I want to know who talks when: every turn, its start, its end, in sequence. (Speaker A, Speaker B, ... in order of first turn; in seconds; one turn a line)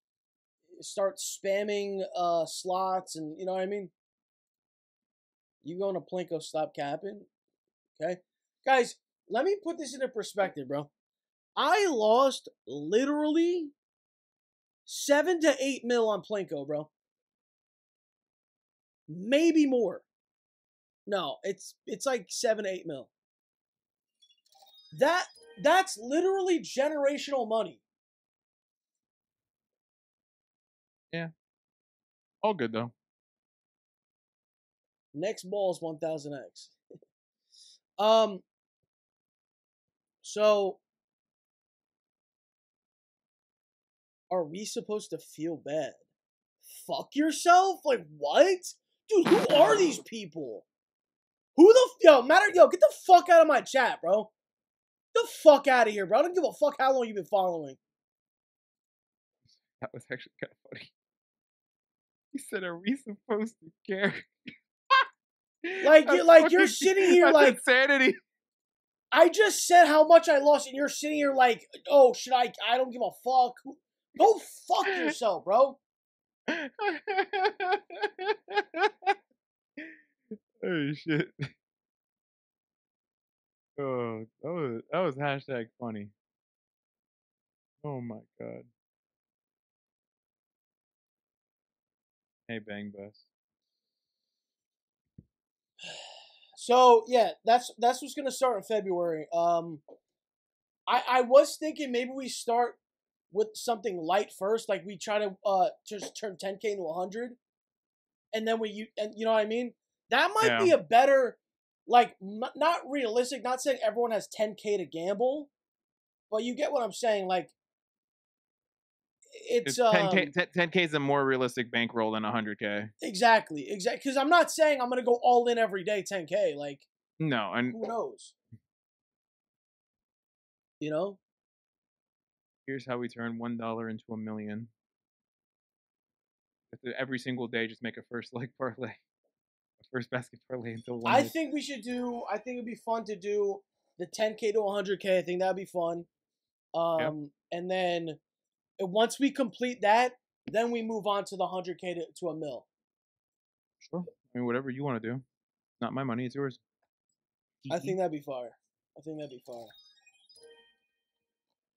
Speaker A: 0.8-3.9
Speaker A: 5.6-7.3
Speaker A: 8.0-10.9
Speaker A: 11.6-13.7
Speaker A: 14.9-16.9
Speaker A: 19.1-20.1
Speaker A: 21.1-23.1
Speaker A: 24.9-27.8
Speaker B: 32.4-32.9
Speaker A: 35.1-36.8
Speaker A: 38.0-38.4
Speaker A: 40.2-40.8
Speaker A: 44.3-46.0
Speaker A: 46.7-50.7
Speaker A: 51.6-54.3
Speaker A: 55.1-57.8
Speaker B: 59.8-60.9
Speaker B: 62.3-65.0
Speaker B: 65.7-68.2
Speaker A: 65.8-67.6
Speaker A: 69.1-75.8
Speaker B: 74.8-75.1
Speaker B: 76.5-79.2
Speaker B: 80.6-81.5
Speaker B: 83.8-86.1
Speaker B: 87.8-88.7
Speaker B: 92.5-93.2
Speaker A: 96.6-99.8
Speaker A: 100.9-102.8
Speaker A: 103.3-107.4
Speaker A: 108.3-115.5
Speaker B: 110.4-110.8
Speaker A: 116.3-117.5
Speaker A: 119.3-120.3
Speaker B: 119.7-122.9
Speaker A: 123.0-126.9
Speaker B: 127.2-127.8
Speaker A: 127.7-128.3
Speaker A: 130.8-131.2
Speaker B: 132.7-134.7
Speaker B: 136.7-139.0
Speaker B: 139.8-141.3
Speaker A: 141.1-146.1
Speaker A: 146.8-148.2
Speaker A: 148.8-152.7
Speaker B: 153.8-155.2
Speaker B: 155.8-156.6
Speaker B: 157.6-158.0
Speaker A: 157.7-159.7